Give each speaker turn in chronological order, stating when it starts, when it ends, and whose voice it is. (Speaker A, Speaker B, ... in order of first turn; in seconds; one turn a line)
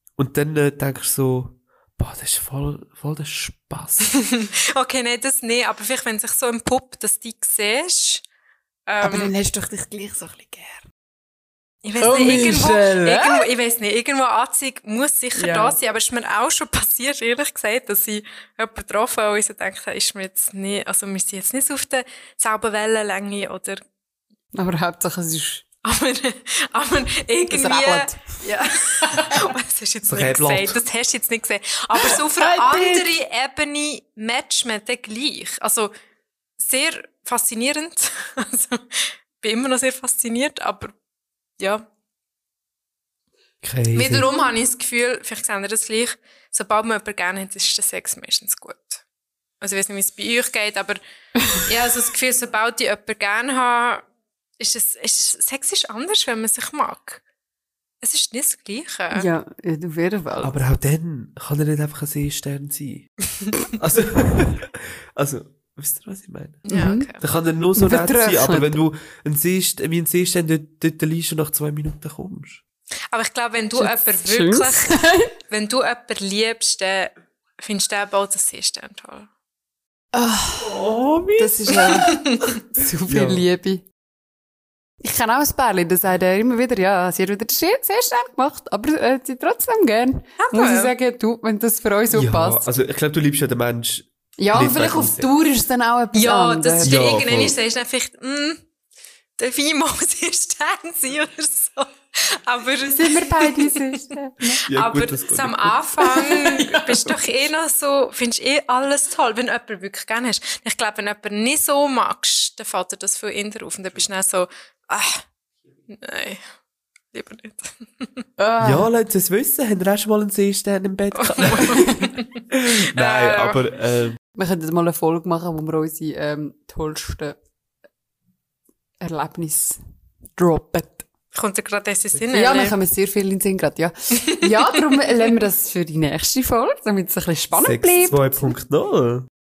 Speaker A: 0.2-4.1
Speaker B: 4.1-8.2
Speaker B: 8.9-9.3
Speaker C: 9.0-10.8
Speaker B: 11.8-23.8
Speaker C: 12.0-13.5
Speaker C: 15.3-15.8
Speaker C: 24.5-25.6
Speaker B: 25.8-35.9
Speaker C: 27.5-28.3
Speaker A: 30.0-30.8
Speaker C: 31.9-33.0
Speaker B: 36.6-40.9
Speaker B: 41.6-41.8
Speaker A: 43.6-44.3
Speaker B: 43.9-49.0
Speaker B: 49.6-51.0
Speaker B: 51.6-54.0
Speaker B: 54.6-57.2
Speaker B: 58.0-59.2
Speaker C: 59.1-60.6
Speaker A: 60.4-63.1
Speaker A: 63.8-72.6
Speaker B: 66.6-67.2
Speaker C: 66.7-67.1
Speaker C: 67.7-68.8
Speaker B: 73.1-79.3
Speaker C: 73.7-75.3
Speaker C: 80.1-80.8
Speaker A: 80.6-81.9
Speaker C: 81.3-83.8
Speaker B: 81.7-82.6
Speaker A: 83.1-83.4
Speaker C: 85.0-92.7
Speaker B: 90.4-90.9
Speaker A: 92.1-95.3
Speaker C: 94.4-97.0
Speaker B: 96.1-98.6
Speaker A: 96.8-97.6
Speaker B: 99.4-103.7
Speaker C: 102.9-104.6
Speaker A: 104.7-105.8
Speaker B: 104.7-115.2
Speaker C: 106.0-107.3
Speaker B: 115.9-116.4
Speaker B: 117.1-118.2
Speaker C: 118.4-118.9
Speaker A: 118.6-121.8
Speaker B: 121.1-122.4
Speaker A: 122.5-124.2
Speaker B: 122.9-123.6
Speaker C: 124.3-127.4
Speaker C: 129.0-129.8
Speaker C: 130.3-131.1
Speaker B: 131.3-132.7
Speaker C: 132.3-138.6
Speaker B: 134.2-134.5
Speaker A: 137.5-139.3